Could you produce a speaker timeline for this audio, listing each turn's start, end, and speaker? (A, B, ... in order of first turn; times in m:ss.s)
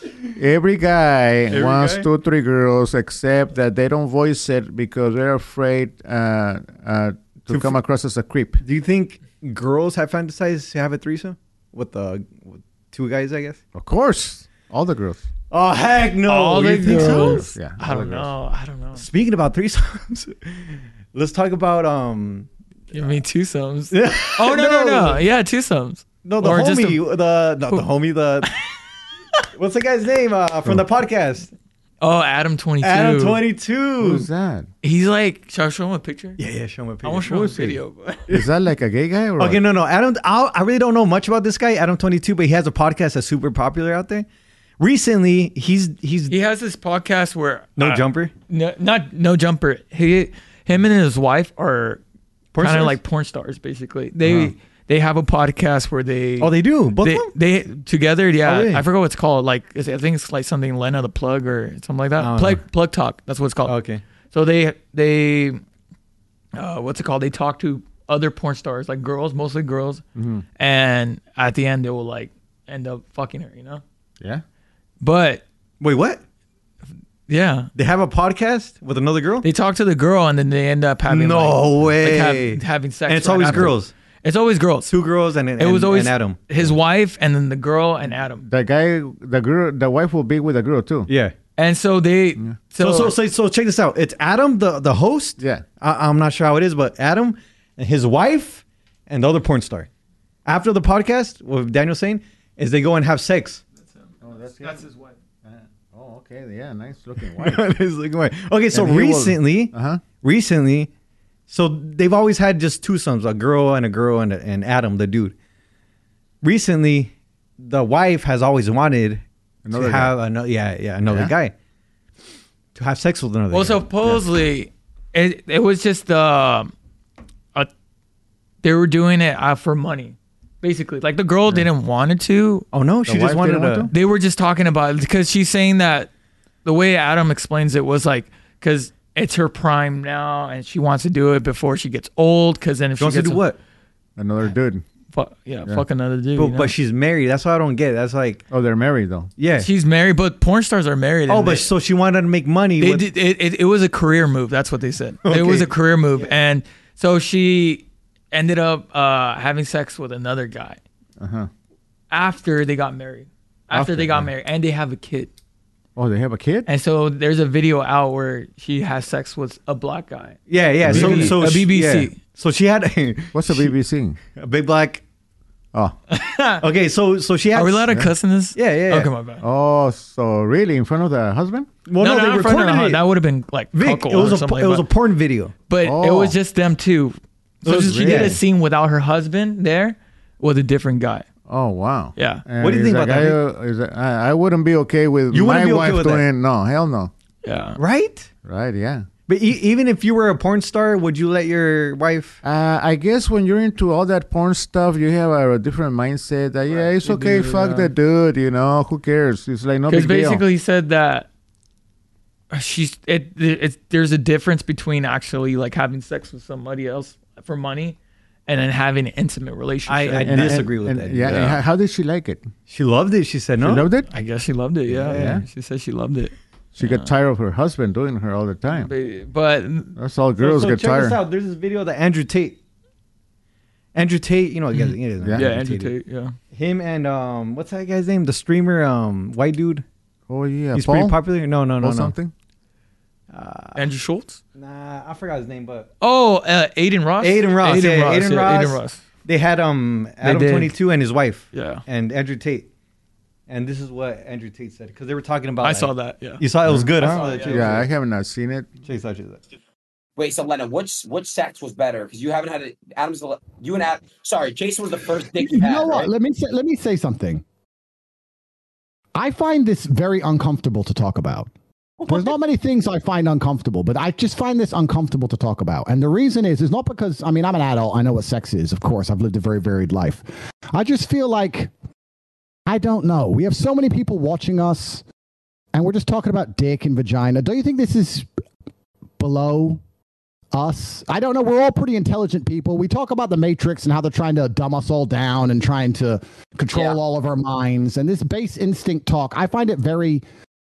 0:00.4-0:08.6 A
0:01.5-0:02.1 B
0:07.5-0:07.7 B
0:08.6-0:13.6 B
0:13.7-0:15.2 A
0:15.5-0:17.5 B
0:16.2-0:19.0 C
0:16.9-0:18.3 A
0:18.9-0:22.5 B
0:22.9-0:27.0 C
0:23.9-0:25.2 B
0:26.2-0:28.5 B
0:29.5-0:31.5 B
0:32.0-0:33.4 C
0:32.8-0:34.3 B
0:34.0-0:34.7 A
0:34.8-0:36.4 C
0:36.4-0:38.4 B
0:37.0-0:38.2 C
0:38.3-0:39.6 A
0:39.4-0:44.2 B
0:44.8-0:46.3 B
0:46.3-0:52.0 C
0:47.8-0:48.3 B
0:52.5-0:53.0 B
0:52.6-1:03.7 C
0:54.2-0:54.5 B
0:56.4-0:57.3 B
0:58.4-0:58.8 B
1:02.2-1:02.6 B
1:03.6-1:04.0 B
1:04.3-1:05.6 C
1:06.5-1:10.0 C
1:10.2-1:10.4 A
1:10.6-1:13.8 C
1:15.0-1:15.4 C
1:15.8-1:16.2 B
1:17.3-1:17.7 C
1:17.7-1:19.5 B
1:19.4-1:25.0 C
1:21.1-1:23.9 B
1:24.9-1:26.4 B
1:25.6-1:28.4 C
1:28.4-1:31.1 A
1:31.1-1:31.3 B
1:31.6-1:33.1 C
1:32.8-1:39.9 B
1:35.4-1:35.6 A
1:40.4-1:43.6 B
1:43.9-1:45.1 C
1:44.2-1:44.8 A
1:45.4-1:47.7 A
1:47.4-1:50.9 B
1:48.7-1:50.0 A
1:51.5-1:55.3 B
1:56.4-2:01.5 B
1:59.6-2:00.1 A
2:02.7-2:03.8 B
2:03.5-2:06.7 C
2:08.6-2:12.6 C
2:12.7-2:13.9 B
2:13.0-2:13.9 A
2:13.9-2:16.1 C
2:16.6-2:23.4 C
2:23.0-2:23.6 B
2:24.2-2:24.8 A
2:25.1-2:26.7 C
2:26.4-2:28.4 B
2:28.5-2:29.3 A
2:29.4-2:29.7 B
2:29.6-2:31.7 C
2:31.3-2:33.0 B
2:32.8-2:40.8 C
2:35.2-2:36.3 B
2:41.2-2:41.5 A
2:42.1-2:45.3 C
2:43.7-2:44.3 A
2:46.0-2:46.7 A
2:46.7-2:52.2 C
2:50.5-2:53.7 B
2:50.8-2:51.4 A
2:53.3-2:54.2 A
2:54.3-2:55.0 B
2:56.1-2:56.6 C
2:56.6-2:57.9 B
2:57.5-2:59.4 C
2:58.5-2:59.1 B
2:59.4-3:01.7 A
3:01.8-3:03.0 B
3:02.0-3:04.8 C
3:03.7-3:05.5 B
3:05.7-3:11.2 C
3:05.8-3:06.4 A
3:07.6-3:08.4 B
3:07.7-3:08.4 A
3:11.5-3:17.1 A
3:12.2-3:12.4 C
3:12.6-3:13.4 B
3:15.3-3:16.2 B
3:17.4-3:17.8 C
3:17.8-3:18.3 B
3:18.4-3:19.0 A
3:19.3-3:22.4 B
3:22.4-3:30.4 A
3:26.8-3:27.9 C
3:29.9-3:31.3 C
3:32.5-3:40.7 C
3:39.9-3:41.3 B
3:40.2-3:42.4 A
3:41.2-3:41.6 C
3:42.7-3:43.9 B
3:43.6-3:44.1 A
3:44.1-3:47.1 C
3:44.9-3:45.4 B
3:45.1-3:45.4 A
3:46.7-3:48.9 A
3:48.7-3:49.9 C
3:50.0-3:51.2 A
3:50.4-3:52.6 B
3:53.9-3:55.9 B
3:54.7-3:56.3 C
3:56.5-3:59.8 B
4:00.3-4:01.2 A
4:00.7-4:02.1 B
4:01.8-4:02.3 A
4:03.3-4:03.8 B
4:03.8-4:04.4 C
4:04.5-4:05.9 B
4:06.0-4:09.0 C
4:07.2-4:12.7 B
4:10.2-4:10.7 C
4:11.5-4:11.8 C
4:13.5-4:17.9 B
4:15.6-4:16.4 C
4:16.6-4:16.9 A
4:17.0-4:17.7 C
4:17.5-4:18.7 A
4:18.8-4:19.4 B
4:20.2-4:26.1 D
4:25.4-4:27.4 E
4:29.1-4:31.5 E
4:32.0-4:41.7 E
4:42.6-4:45.0 E
4:45.7-4:48.3 E
4:49.2-4:49.8 E
4:50.5-5:00.2 E
4:56.7-4:57.0 D